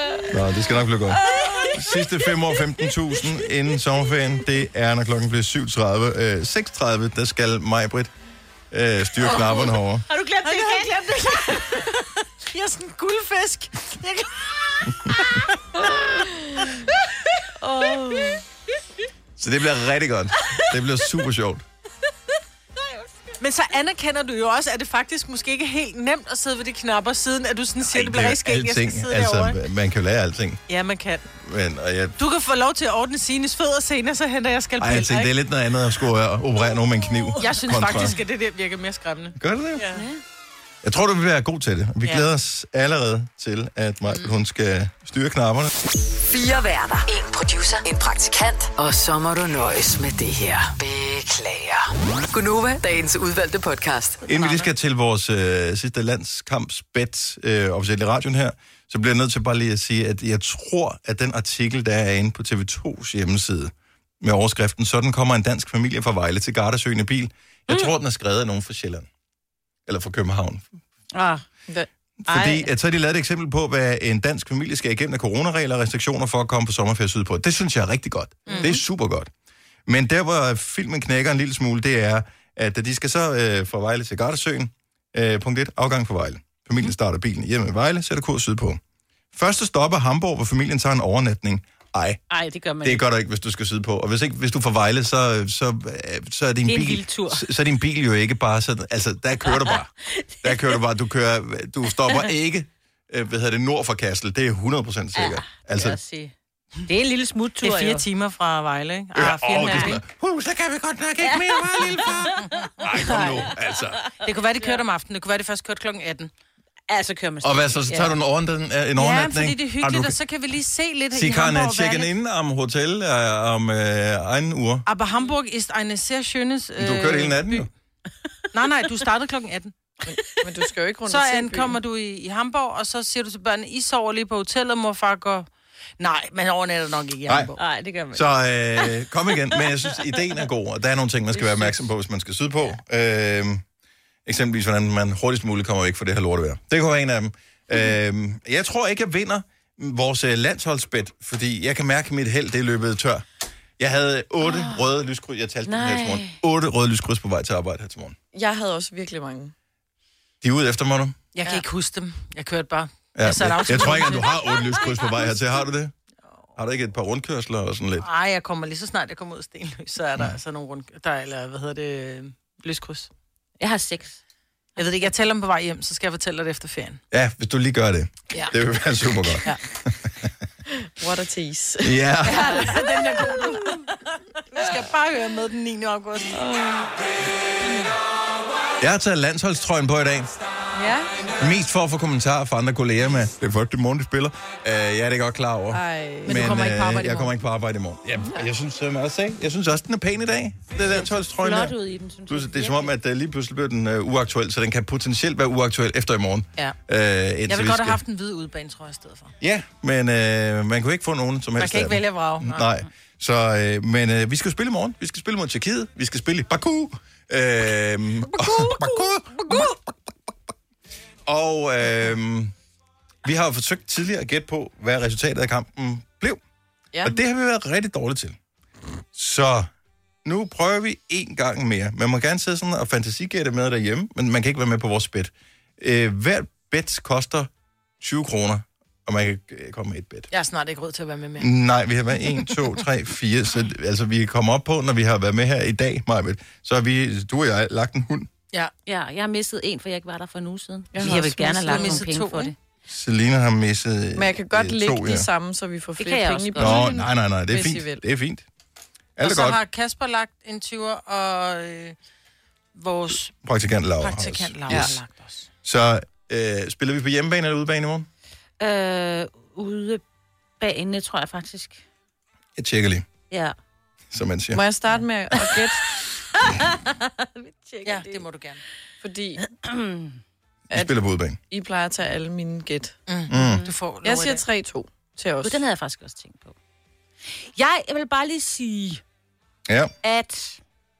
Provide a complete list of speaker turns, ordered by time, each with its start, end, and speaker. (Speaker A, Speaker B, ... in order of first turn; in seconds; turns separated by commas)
Speaker A: 0.3-8.1, Speaker A: 8.7-10.1, Speaker B: 9.3-11.3, Speaker C: 10.4-15.5, Speaker D: 15.9-16.8, Speaker D: 17.6-18.4, Speaker A: 19.4-21.6, Speaker C: 23.4-29.6, Speaker A: 27.9-30.6, Speaker C: 30.7-31.3, Speaker A: 31.4-32.1, Speaker C: 32.2-35.3, Speaker A: 34.8-38.1, Speaker C: 37.4-40.0, Speaker A: 39.4-39.9, Speaker B: 39.9-40.2, Speaker A: 40.8-45.7, Speaker C: 44.1-44.3, Speaker E: 46.2-54.2, Speaker A: 54.3-69.1, Speaker C: 54.3-54.7, Speaker A: 69.9-70.7, Speaker B: 71.1-71.4, Speaker A: 72.2-79.3, Speaker B: 72.3-72.7, Speaker C: 78.5-78.7, Speaker B: 78.5-78.8, Speaker A: 79.9-88.8, Speaker A: 89.3-92.2, Speaker B: 92.3-93.0, Speaker A: 92.8-99.9, Speaker B: 96.7-97.5, Speaker B: 99.5-100.8, Speaker A: 100.4-106.0, Speaker B: 105.2-106.3, Speaker B: 106.9-108.0, Speaker C: 107.6-110.0, Speaker A: 109.2-114.0, Speaker B: 109.5-110.0, Speaker B: 111.2-112.4, Speaker C: 112.5-113.5, Speaker B: 114.0-114.8, Speaker C: 114.2-116.3, Speaker B: 116.9-118.2, Speaker A: 117.4-120.2, Speaker C: 119.0-122.1, Speaker A: 121.1-124.8, Speaker C: 124.9-127.7, Speaker A: 126.8-127.7, Speaker C: 128.5-129.7, Speaker D: 130.1-131.8, Speaker C: 131.1-137.6, Speaker B: 137.6-139.1, Speaker A: 138.1-143.6, Speaker B: 139.6-139.9, Speaker A: 144.3-153.2, Speaker A: 153.8-158.2, Speaker B: 154.4-154.8, Speaker B: 155.7-156.4, Speaker D: 158.3-159.5, Speaker A: 160.4-161.2, Speaker C: 161.3-164.3, Speaker A: 163.2-165.9, Speaker A: 166.6-168.1, Speaker C: 168.0-173.1, Speaker B: 173.6-174.2, Speaker C: 174.8-177.0, Speaker A: 177.1-180.2, Speaker D: 180.8-182.8, Speaker A: 181.8-182.7, Speaker C: 182.2-186.4, Speaker D: 186.3-186.9, Speaker A: 188.8-190.3, Speaker D: 190.7-191.2, Speaker A: 191.4-201.8, Speaker D: 195.7-196.3, Speaker C: 196.2-197.3, Speaker B: 201.1-202.9, Speaker A: 202.3-208.0, Speaker C: 207.5-209.3, Speaker A: 209.4-219.9, Speaker C: 211.6-212.7, Speaker C: 218.3-219.7, Speaker A: 221.3-222.5, Speaker A: 223.2-226.4, Speaker A: 227.0-228.4, Speaker A: 229.1-229.7, Speaker A: 230.2-237.5, Speaker A: 238.0-240.3, Speaker C: 240.3-241.5, Speaker A: 241.4-248.3, Speaker B: 248.9-252.5, Speaker D: 250.9-251.3, Speaker C: 251.0-252.5, Speaker A: 252.9-255.3, Speaker D: 254.2-258.0, Speaker B: 256.0-256.9, Speaker A: 256.6-258.5, Speaker A: 259.2-259.6, Speaker C: 259.2-262.0, Speaker C: 262.8-263.3, Speaker A: 263.4-265.0, Speaker C: 264.0-265.5, Speaker A: 265.6-268.1, Speaker B: 268.6-270.0, Speaker B: 270.6-271.8, Speaker A: 272.6-273.1, Speaker A: 274.1-274.6, Speaker D: 274.5-275.8, Speaker B: 276.4-278.2, Speaker C: 277.8-278.6, Speaker D: 279.0-279.4, Speaker B: 279.5-280.2, Speaker A: 280.7-281.4, Speaker D: 281.5-283.0, Speaker C: 283.1-284.4, Speaker A: 283.3-283.6, Speaker B: 283.3-283.7, Speaker D: 284.0-285.6, Speaker B: 285.4-286.6, Speaker B: 287.6-289.0, Speaker A: 289.7-289.9, Speaker B: 290.0-290.6